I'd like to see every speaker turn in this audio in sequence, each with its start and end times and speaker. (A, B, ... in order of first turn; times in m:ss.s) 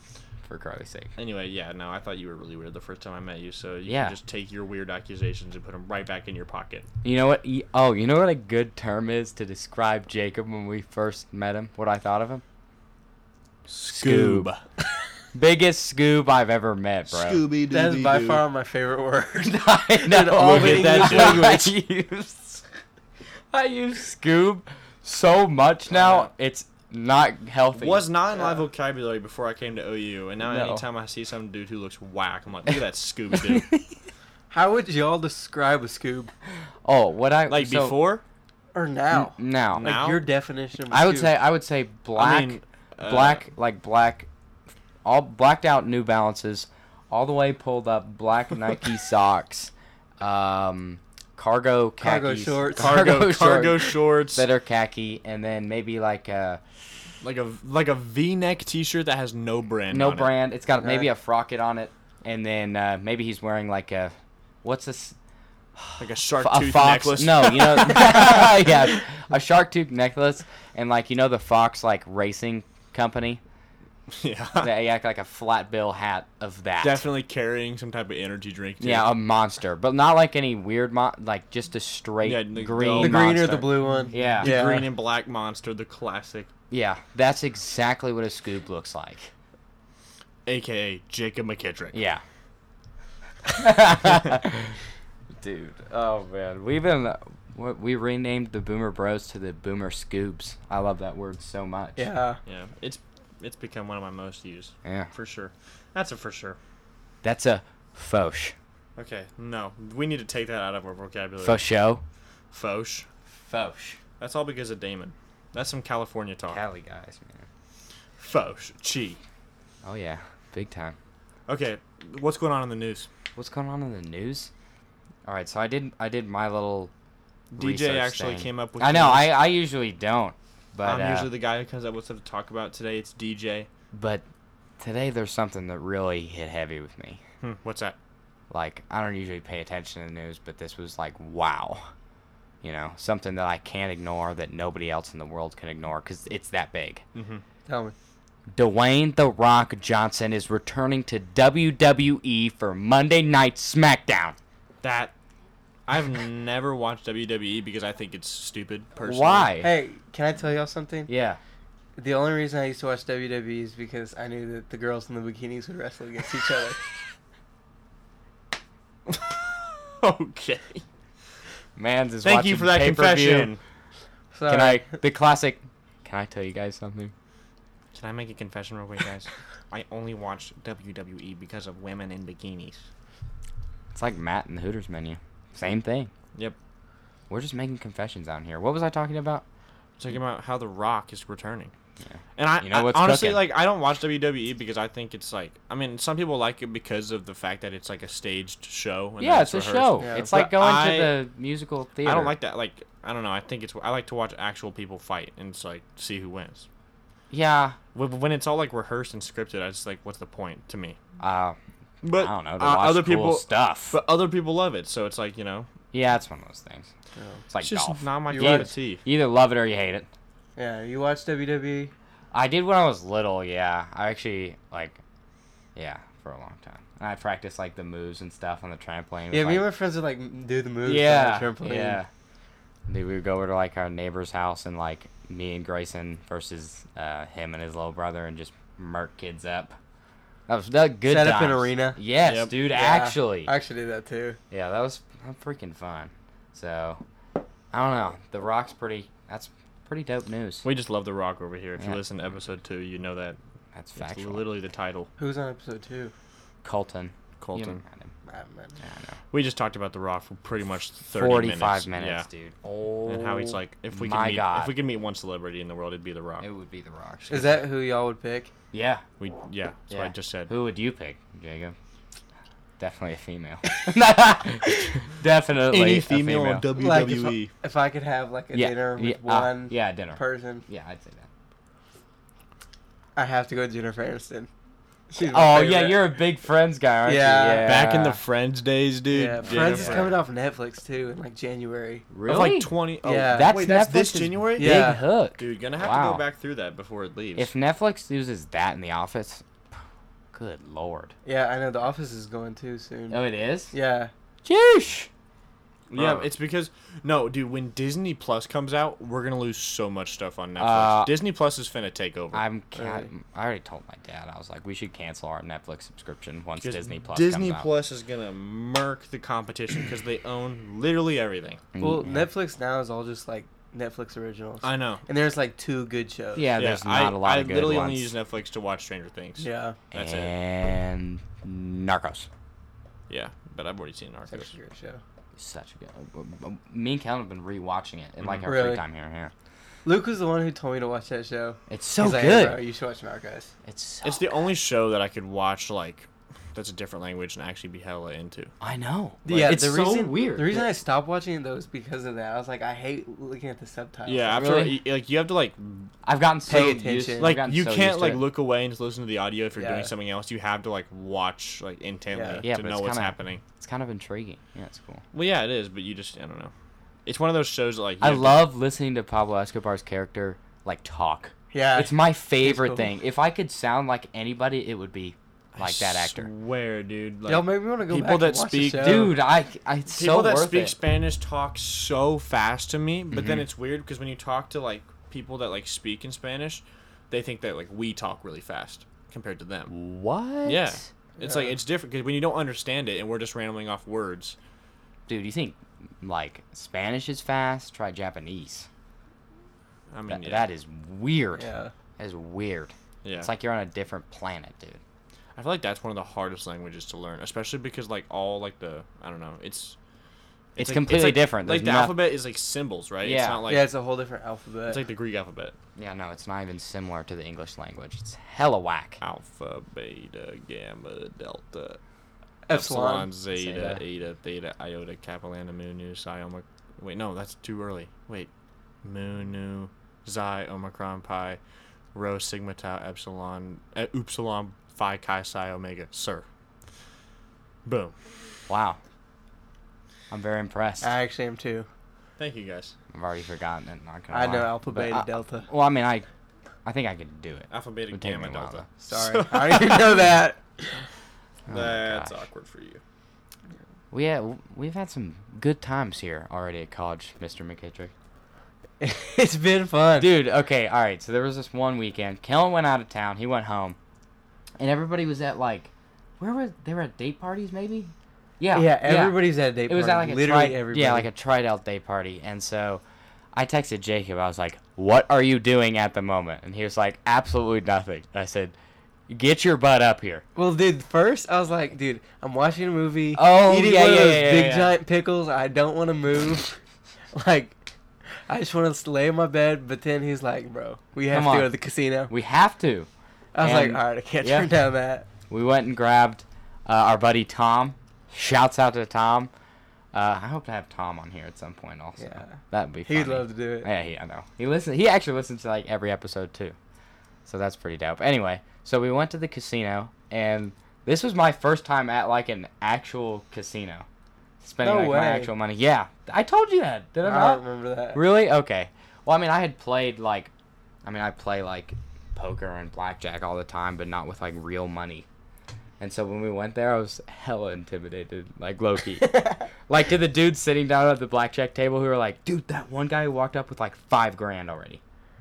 0:00.4-0:01.1 A
0:01.2-0:06.9 B
0:03.8-0:04.2 A
0:07.0-0:12.4 A
0:13.7-0:14.6 B
0:13.9-0:14.5 A
0:15.3-0:17.4 A
0:17.1-0:18.4 B
0:17.7-0:21.7 C
0:19.5-0:22.6 A
0:20.5-0:21.4 B
0:23.5-0:28.1 A
0:25.9-0:26.3 B
0:27.8-0:33.7 B
0:30.4-0:30.8 A
0:33.3-0:33.9 A
0:34.5-0:36.3 C
0:36.8-0:38.0 A
0:37.5-0:38.2 B
0:38.7-0:41.3 C
0:39.1-0:39.9 A
0:39.8-0:40.2 B
0:40.9-0:44.3 A
0:42.2-0:43.4 B
0:45.0-0:56.6 A
0:52.0-0:53.0 C
0:52.8-0:54.4 B
0:57.2-1:00.3 B
0:59.9-1:05.2 A
1:00.8-1:01.1 C
1:05.8-1:13.4 A
1:06.0-1:08.9 B
1:14.1-1:14.7 B
1:14.6-1:17.0 A
1:16.8-1:19.1 B
1:18.8-1:24.5 A
1:22.2-1:23.2 B
1:23.0-1:24.9 C
1:24.2-1:26.5 B
1:26.7-1:29.3 A
1:30.4-1:31.9 B
1:31.9-1:32.2 A
1:33.5-1:34.7 A
1:35.4-1:42.1 A
1:42.0-1:42.4 C
1:42.4-1:46.6 B
1:44.8-1:45.1 A
1:47.2-1:48.5 A
1:49.0-1:51.7 B
1:51.4-1:52.0 A
1:52.5-1:53.1 B
1:53.4-1:54.0 A
1:54.2-1:56.6 B
1:56.5-1:57.4 A
1:58.2-1:59.2 B
1:59.8-2:01.0 A
2:01.5-2:03.1 B
2:03.4-2:04.5 A
2:05.2-2:06.9 A
2:07.5-2:09.3 B
2:07.6-2:11.3 A
2:10.8-2:13.7 B
2:13.9-2:14.2 A
2:14.8-2:17.2 A
2:17.4-2:18.0 B
2:18.5-2:21.9 A
2:22.6-2:27.0 A
2:27.1-2:27.4 B
2:27.6-2:27.9 C
2:28.5-2:34.4 A
2:34.8-2:35.1 B
2:35.9-2:39.5 B
2:39.0-2:39.7 A
2:39.6-2:41.1 C
2:41.1-2:41.4 A
2:42.0-2:46.8 C
2:49.1-2:50.8 B
2:51.8-2:53.5 A
2:52.2-2:53.6 B
2:54.3-2:55.0 C
2:54.5-2:57.1 A
2:57.9-3:02.8 B
3:03.9-3:06.1 A
3:07.3-3:09.4 A
3:10.0-3:11.7 B
3:12.1-3:13.5 A
3:12.4-3:21.2 B
3:19.2-3:22.3 A
3:20.0-3:20.3 C
3:22.0-3:26.7 B
3:27.3-3:27.8 A
3:27.9-3:31.0 B
3:31.2-3:34.0 A
3:32.0-3:35.7 B
3:35.9-3:36.9 A
3:37.2-3:37.4 C
3:37.5-3:40.1 A
3:37.6-3:39.0 B
3:38.3-3:38.7 C
3:40.6-3:41.9 C
3:42.3-3:45.0 A
3:45.8-3:49.7 A
3:49.3-3:52.0 C
3:50.8-3:52.1 A
3:52.9-3:59.8 A
4:00.5-4:03.5 A
4:01.0-4:02.0 C
4:02.2-4:02.5 B
4:02.7-4:04.4 C
4:04.5-4:07.0 A
4:07.7-4:10.6 A
4:10.6-4:13.4 B
4:13.7-4:14.5 A
4:14.0-4:15.1 B
4:15.2-4:16.1 C
4:16.6-4:18.1 A
4:17.4-4:17.8 B
4:18.2-4:18.7 C
4:18.8-4:19.2 A
4:19.3-4:22.3 B
4:21.1-4:24.7 A
4:23.0-4:26.5 B
4:26.4-4:27.6 A
4:27.3-4:28.5 C
4:28.7-4:29.0 A
4:29.2-4:30.5 B
4:29.9-4:31.8 A
4:32.8-4:36.7 A
4:35.7-4:37.5 B
4:36.7-4:40.6 C
4:38.5-4:41.3 A
4:43.2-4:44.5 C
4:45.1-4:46.1 C
4:45.2-4:48.2 A
4:47.0-4:47.7 C
4:47.6-4:50.2 B
4:49.1-4:52.1 C
4:49.5-4:50.1 A
4:52.1-4:52.7 A
4:52.2-4:57.5 B
4:53.0-4:53.6 C
4:53.2-4:56.2 A
4:54.6-4:55.0 C
4:57.4-4:59.4 A
5:00.3-5:01.1 A
5:01.2-5:04.1 C
5:03.1-5:03.7 A
5:04.4-5:05.1 A
5:05.9-5:12.4 B
5:05.9-5:06.3 A
5:10.6-5:11.1 A
5:12.3-5:17.7 A
5:12.7-5:13.1 C
5:16.6-5:21.6 B
5:21.7-5:22.3 A
5:21.8-5:26.5 C
5:24.6-5:25.0 B
5:26.3-5:28.1 A
5:26.6-5:30.3 B
5:29.4-5:29.8 C
5:29.9-5:32.3 A
5:33.1-5:34.5 B
5:34.3-5:35.0 C
5:35.4-5:39.3 A
5:38.2-5:38.5 B
5:38.4-5:38.8 C
5:39.8-5:43.5 C
5:41.7-5:42.6 A
5:43.6-5:44.3 A
5:44.0-5:48.5 B
5:48.6-5:50.7 A
5:49.2-5:54.4 C
5:54.0-5:55.9 B
5:54.4-5:54.8 A
5:56.0-5:58.2 A
5:56.5-5:57.3 C
5:57.2-6:03.4 B
5:59.6-5:59.9 C
6:02.1-6:02.4 C
6:02.4-6:05.0 A
6:05.1-6:06.5 B
6:07.0-6:08.4 B
6:08.0-6:16.3 A
6:11.5-6:12.9 C
6:15.5-6:19.2 B
6:17.2-6:19.1 C
6:18.8-6:20.8 A
6:19.9-6:29.7 B
6:23.1-6:23.4 A
6:29.7-6:30.8 A
6:30.4-6:34.4 B
6:31.2-6:31.6 C
6:35.1-6:38.7 A
6:39.9-6:40.5 B
6:40.1-6:41.5 A
6:41.4-6:41.7 C
6:42.0-6:44.8 A
6:43.0-6:43.3 B
6:45.4-6:49.8 B
6:50.6-6:53.7 B
6:50.6-6:52.0 A
6:53.0-6:53.4 A
6:53.5-6:54.8 C
6:54.7-6:55.6 B
6:55.8-6:59.0 A
6:59.0-7:01.8 B
7:02.4-7:03.1 C
7:02.5-7:08.3 B
7:03.3-7:03.8 A
7:08.8-7:11.4 B
7:11.9-7:16.2 B
7:17.6-7:17.9 B
7:18.5-7:18.8 A
7:20.1-7:20.9 A
7:20.8-7:21.7 C
7:22.2-7:22.7 B
7:22.9-7:26.0 A
7:24.1-7:25.5 C
7:26.6-7:28.7 A
7:27.5-7:30.0 B
7:28.8-7:30.8 C
7:31.5-7:32.1 A
7:31.5-7:32.8 B
7:33.9-7:37.9 A
7:38.8-7:40.1 C
7:40.0-7:43.8 A
7:44.6-7:52.8 A
7:48.5-7:51.1 C
7:53.3-7:58.5 A
7:59.1-8:00.2 A
8:00.4-8:06.6 C
8:03.2-8:04.7 A
8:07.1-8:07.6 C
8:08.3-8:12.1 C
8:11.1-8:11.5 A
8:12.1-8:12.9 A
8:13.3-8:15.1 C
8:13.4-8:14.5 A
8:15.3-8:19.3 A
8:19.9-8:26.6 A
8:22.0-8:23.7 C
8:27.2-8:33.8 A
8:34.4-8:37.4 A
8:34.6-8:35.3 C
8:37.0-8:38.0 C
8:37.9-8:40.3 A
8:40.8-8:45.0 A
8:45.8-8:54.8 A
8:49.0-8:49.4 C